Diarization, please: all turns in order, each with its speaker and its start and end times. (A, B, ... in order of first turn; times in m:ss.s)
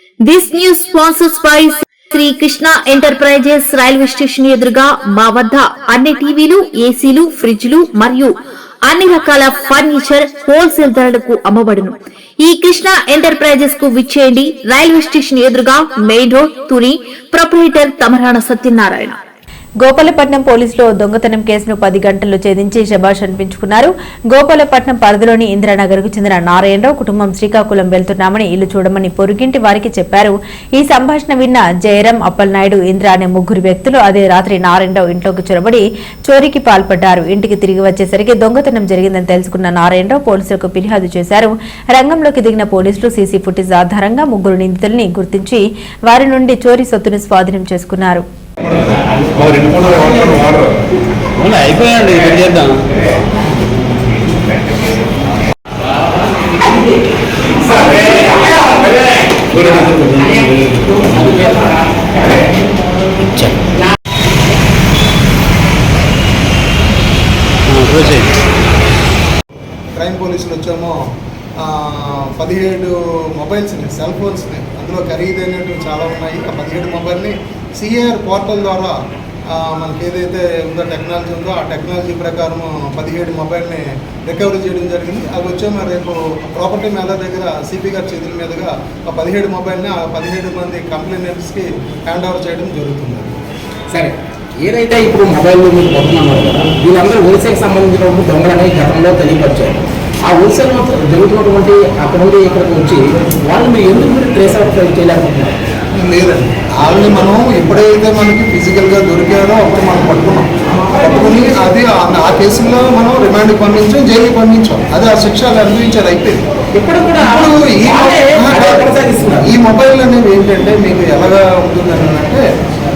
0:00.3-0:19.2 A
0:19.8-0:48.2 B
0:49.3-0:50.8 C
0:51.4-0:52.8 C
0:57.9-0:58.4 C
0:59.5-1:01.6 C
1:03.3-1:03.6 C
1:07.7-1:08.3 C
1:10.0-1:11.0 D
1:11.6-1:19.0 D
1:19.5-1:33.3 D
1:33.9-1:45.6 E
1:46.0-1:56.4 D
1:50.8-1:51.2 E
1:56.8-1:59.5 E
1:57.2-2:02.4 D